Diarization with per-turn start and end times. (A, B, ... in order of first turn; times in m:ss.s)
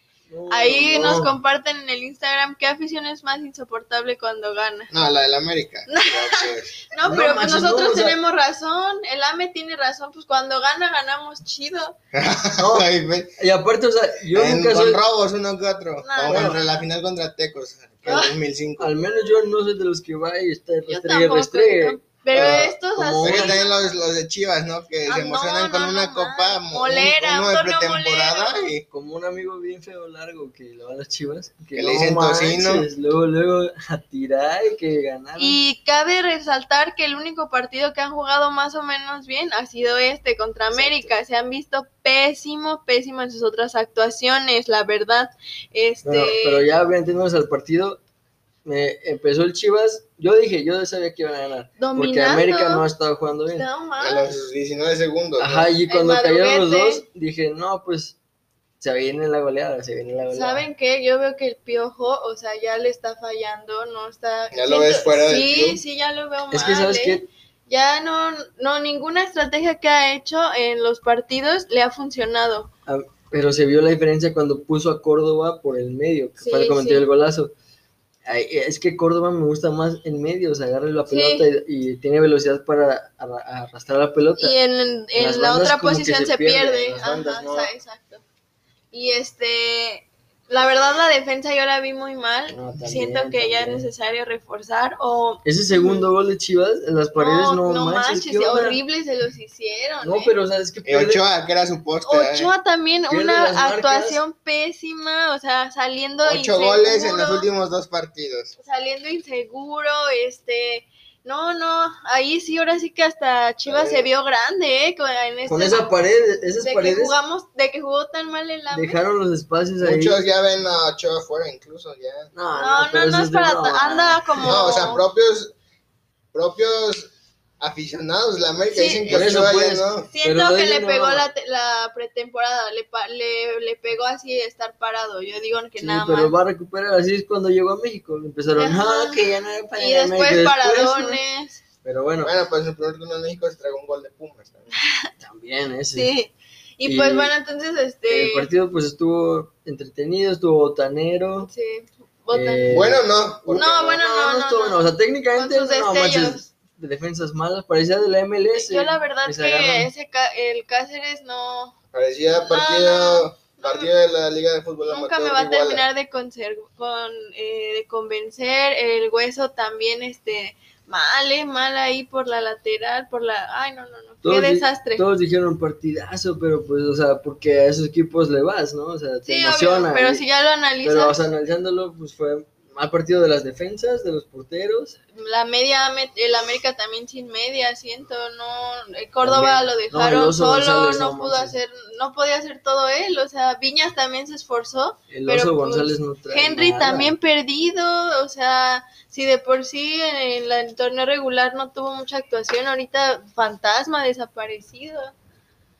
0:00.3-0:01.4 A
0:00.5-0:04.9 B
0:04.9-0:06.8 C
0:05.9-0:12.0 B
0:07.0-0:08.2 A
0:12.1-0:13.3 C
0:12.6-0:15.0 A
0:14.3-0:18.9 C
0:16.0-0:16.7 B
0:16.3-0:16.6 A
0:18.1-0:18.4 B
0:18.8-0:23.6 A
0:20.9-0:23.7 B
0:22.3-0:28.8 C
0:25.1-0:28.7 B
0:28.9-0:35.6 A
0:31.8-0:32.9 C
0:35.4-0:46.7 B
0:40.7-0:41.1 A
0:46.0-0:48.0 A
0:48.6-0:53.7 A
0:51.8-0:52.8 B
0:53.5-0:54.4 B
0:54.0-0:55.7 C
0:55.4-0:58.2 A
0:55.9-0:57.0 B
0:58.8-1:00.6 A
1:00.3-1:12.7 B
1:04.5-1:05.8 C
1:06.5-1:07.2 A
1:12.9-1:17.5 A
1:16.4-1:17.1 B
1:18.3-1:24.6 A
1:21.1-1:21.5 B
1:24.4-1:28.2 B
1:25.2-1:27.7 A
1:28.9-1:36.1 B
1:32.5-1:33.9 A
1:35.4-1:38.8 A
1:37.2-1:40.3 B
1:40.0-1:41.2 A
1:40.8-1:42.5 C
1:42.0-1:47.5 B
1:43.1-1:44.2 A
1:46.2-1:48.6 C
1:48.6-1:55.9 B
1:53.7-1:54.1 C
1:55.5-1:57.2 A
1:56.6-1:59.0 B
1:58.7-2:00.2 A
1:59.8-2:02.3 C
2:02.3-2:04.7 A
2:02.5-2:05.0 B
2:04.4-2:05.5 C
2:06.3-2:10.1 C
2:08.7-2:09.2 B
2:09.1-2:11.3 A
2:10.1-2:16.4 B
2:15.8-2:21.2 A
2:18.6-2:19.2 B
2:19.8-2:21.6 B
2:21.8-2:22.3 A
2:22.2-2:24.7 C
2:24.8-2:25.1 B
2:25.2-2:26.1 A
2:26.0-2:28.5 B
2:26.8-2:27.3 A
2:28.1-2:31.5 A
2:31.4-2:32.9 B
2:32.3-2:39.9 A
2:32.7-2:34.0 C
2:33.5-2:36.5 B
2:38.5-2:41.8 B
2:41.9-2:45.9 C
2:42.4-2:43.9 B
2:44.9-2:55.0 B
2:54.2-3:00.2 A
2:59.3-3:01.2 B
3:00.8-3:05.0 A
3:05.2-3:25.1 B
3:09.2-3:11.6 A
3:15.1-3:17.2 A